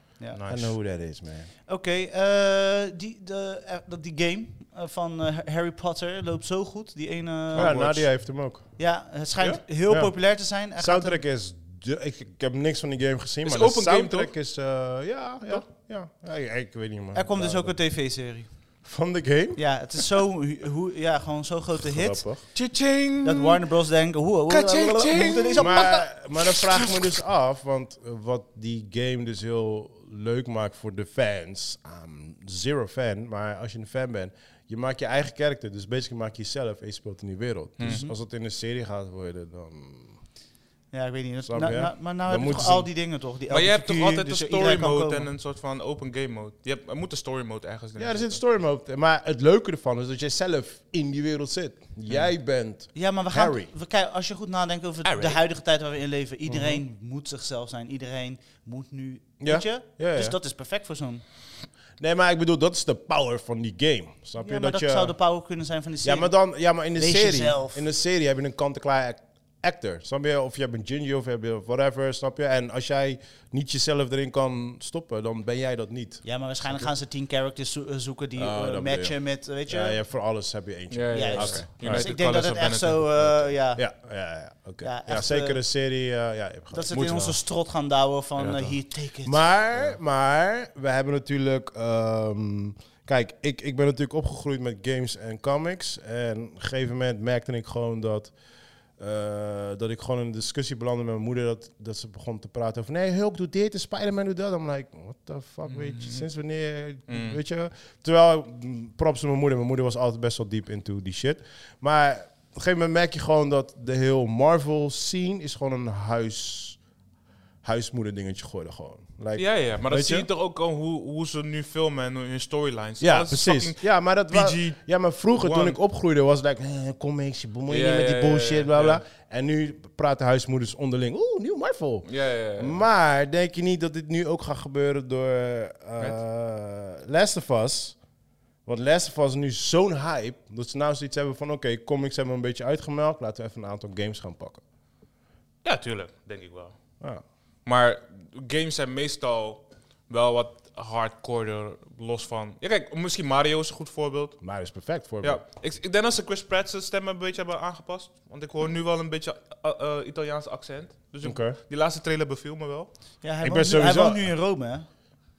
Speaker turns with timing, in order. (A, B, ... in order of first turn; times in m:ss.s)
0:00.4-0:00.7 A
0:00.4-0:01.5 B
0:01.7-0:11.2 C
0:07.5-0:08.0 A
0:07.5-0:08.6 B
0:09.9-0:17.8 B
0:13.4-0:14.3 A
0:17.1-0:18.5 C
0:18.8-0:19.6 B
0:19.6-0:22.2 C
0:21.8-0:22.5 B
0:22.5-0:23.6 A
0:23.2-0:26.1 C
0:24.5-0:27.1 A
0:25.6-0:40.2 B
0:37.8-0:38.0 A
0:37.8-0:38.2 C
0:40.9-0:45.3 C
0:41.4-0:42.9 B
0:43.5-0:48.4 A
0:48.0-0:53.7 B
0:53.0-1:01.2 C
0:55.0-0:55.4 A
0:56.5-0:56.8 B
0:59.4-1:00.4 B
1:02.0-1:05.2 B
1:04.4-1:06.4 C
1:06.0-1:16.9 B
1:06.9-1:07.8 C
1:16.2-1:20.0 C
1:18.4-1:22.1 B
1:20.9-1:23.4 A
1:21.1-1:23.9 C
1:23.8-1:27.4 B
1:24.8-1:25.6 C
1:26.7-1:29.4 C
1:28.4-1:38.3 B
1:39.0-1:56.8 B
1:45.7-1:46.3 A
1:47.1-1:47.4 A
1:57.6-2:00.3 B
1:59.4-2:04.8 A
2:03.0-2:18.0 B
2:05.4-2:05.8 A
2:07.7-2:09.0 A
2:12.1-2:12.8 A
2:18.7-2:24.6 B
2:25.6-2:26.8 A
2:27.7-2:34.4 A
2:34.4-2:35.4 B
2:35.2-2:42.9 A
2:41.2-2:41.6 B
2:43.2-2:44.9 C
2:43.4-2:44.3 B